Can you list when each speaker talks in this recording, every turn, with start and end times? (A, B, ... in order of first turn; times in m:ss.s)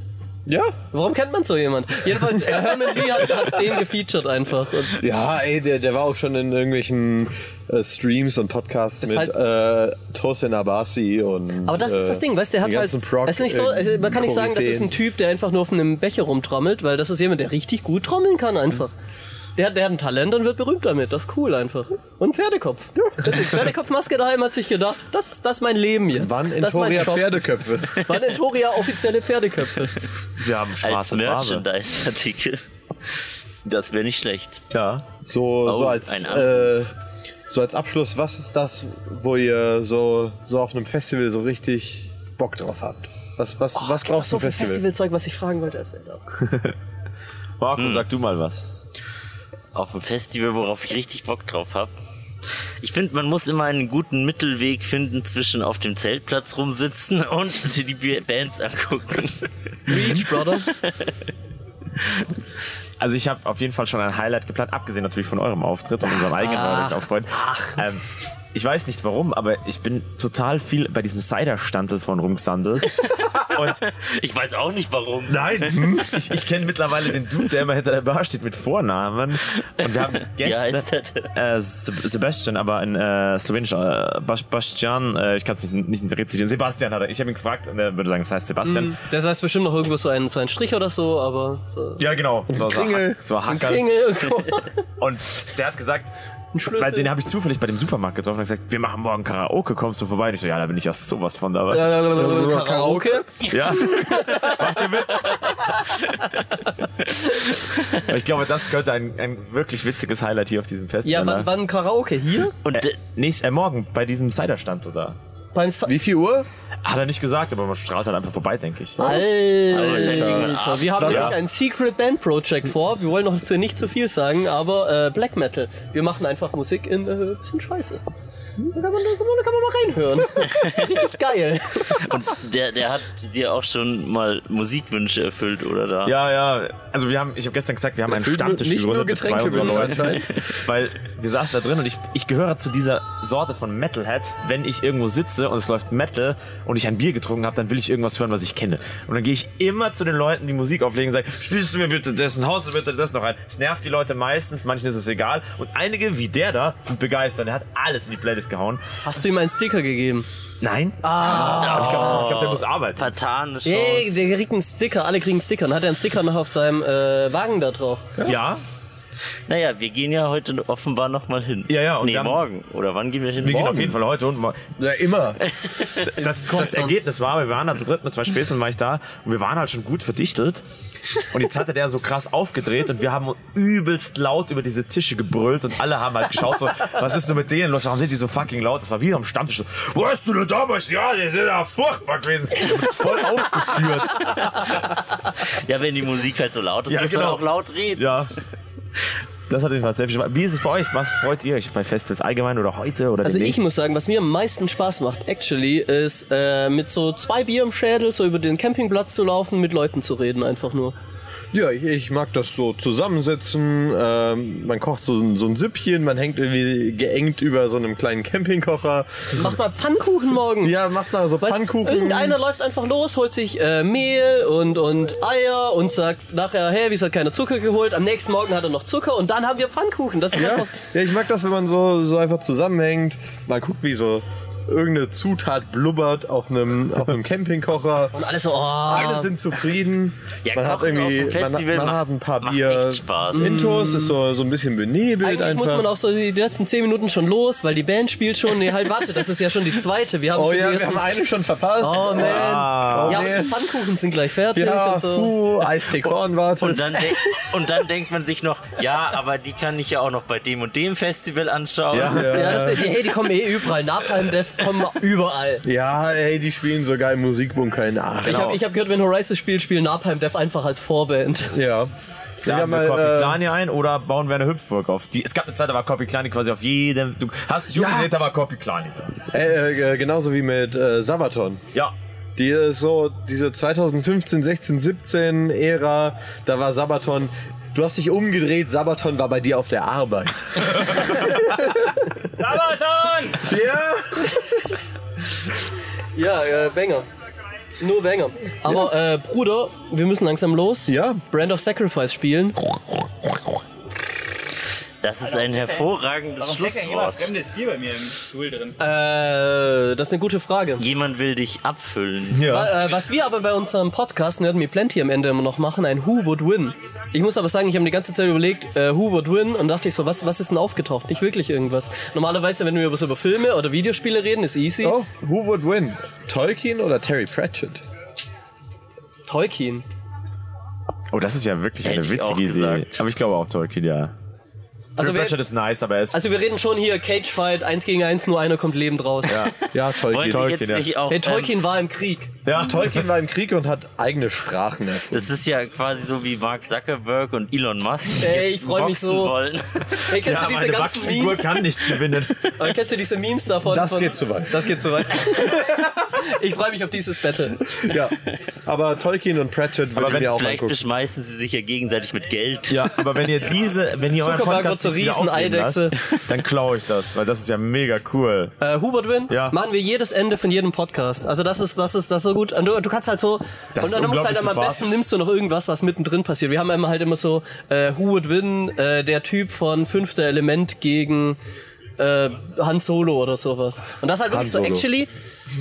0:00.5-0:00.8 A
0:00.9-0:05.0 B
0:02.3-0:03.6 A
0:05.0-0:15.0 A
0:09.0-0:09.3 B
0:11.7-0:18.9 B
0:19.6-0:30.0 B
0:26.1-0:28.0 A
0:30.4-0:31.6 C
0:30.8-0:32.7 D
0:33.6-0:34.6 D
0:34.7-0:35.2 C
0:35.2-0:36.9 A
0:35.6-0:36.7 D
0:37.5-0:44.8 A
0:43.8-0:46.2 B
0:47.6-0:48.7 C
0:47.8-0:48.0 D
0:49.7-0:51.9 D
0:52.8-1:01.2 D
0:59.9-1:00.7 B
1:02.0-1:02.3 D
1:03.0-1:13.8 C
1:06.1-1:07.7 B
1:13.0-1:15.9 D
1:15.3-1:29.0 C
1:15.7-1:16.1 A
1:19.8-1:21.3 D
1:28.6-1:32.0 B
1:32.0-1:34.4 C
1:32.5-1:33.2 A
1:33.4-1:34.7 B
1:35.0-1:36.1 C
1:36.5-1:37.1 B
1:36.7-1:42.0 C
1:41.7-1:44.7 B
1:42.1-1:43.2 A
1:43.4-1:45.6 C
1:47.8-1:51.5 C
1:51.1-1:52.5 B
1:52.6-1:53.0 D
1:52.7-1:55.2 C
1:55.5-1:55.9 B
1:55.9-1:56.5 A
1:56.8-1:59.0 C
1:59.0-2:01.3 A
1:59.0-2:08.0 B
1:59.7-2:01.2 D
2:01.0-2:01.4 C
2:08.7-2:12.1 B
2:11.9-2:16.1 D
2:16.1-2:38.8 C
2:18.1-2:20.3 A
2:39.0-2:40.3 B
2:40.6-2:43.1 C
2:41.0-2:42.3 B
2:41.2-2:41.9 A
2:41.6-2:44.3 D
2:43.6-2:48.1 B
2:48.2-2:48.6 C
2:49.5-2:53.9 D
2:51.7-2:52.4 C
2:53.4-2:54.7 C
2:53.4-2:53.9 A
2:54.8-2:55.4 A
2:56.0-3:14.9 C
2:56.2-2:56.9 B
3:14.3-3:14.8 D
3:15.4-3:18.2 D
3:16.9-3:18.3 C
3:19.5-3:23.6 C
3:23.2-3:31.0 B
3:31.5-3:39.6 A
3:39.3-3:40.8 B
3:40.6-3:42.4 A
3:41.4-3:50.8 B
3:50.3-3:58.2 A
3:58.1-3:59.3 B
3:58.7-4:05.9 A
4:00.4-4:03.5 D
4:03.3-4:04.2 B
4:05.2-4:11.0 B
4:10.3-4:13.7 A
4:11.8-4:15.3 B
4:12.2-4:13.4 C
4:14.5-4:17.2 A
4:16.6-4:22.6 D
4:21.9-4:22.9 A
4:22.0-4:22.4 C
4:22.2-4:25.6 B
4:25.6-4:28.6 A
4:28.2-4:31.6 B
4:28.3-4:28.5 C
4:31.5-4:31.9 A
4:32.4-4:33.4 A
4:32.4-4:39.2 C
4:37.7-4:38.1 A
4:39.3-4:41.6 A
4:42.4-4:51.3 A
4:52.3-4:53.5 E
4:53.4-4:54.3 A
4:56.2-4:57.1 B
4:57.8-5:02.7 B
5:00.9-5:01.2 A
5:05.0-5:07.3 D
5:05.4-5:05.9 E
5:06.4-5:08.8 E
5:08.8-5:10.8 B
5:10.8-5:12.6 D
5:12.3-5:12.7 C
5:12.5-5:25.0 B
5:24.8-5:27.8 A
5:29.3-5:29.9 B
5:31.1-5:34.1 C
5:31.8-5:33.0 D
5:35.0-5:35.4 B
5:35.0-5:36.3 C
5:36.1-5:39.5 B
5:39.2-5:39.5 C
5:39.7-5:40.6 A
5:39.9-5:41.6 D
5:40.1-5:40.9 C
5:41.1-5:42.4 B
5:42.4-5:43.1 C
5:42.5-5:45.3 A
5:45.1-5:50.1 D
5:48.2-5:49.3 B
5:50.1-5:51.7 B
5:50.1-5:52.8 C
5:52.6-5:57.8 B
5:53.7-5:54.7 A
5:57.8-6:00.8 A
6:00.0-6:00.4 C
6:00.0-6:03.0 D
6:02.7-6:08.6 C
6:04.2-6:06.0 B
6:08.6-6:21.4 B
6:09.3-6:09.6 C
6:13.8-6:15.0 C
6:22.0-6:25.1 B
6:24.3-6:24.9 A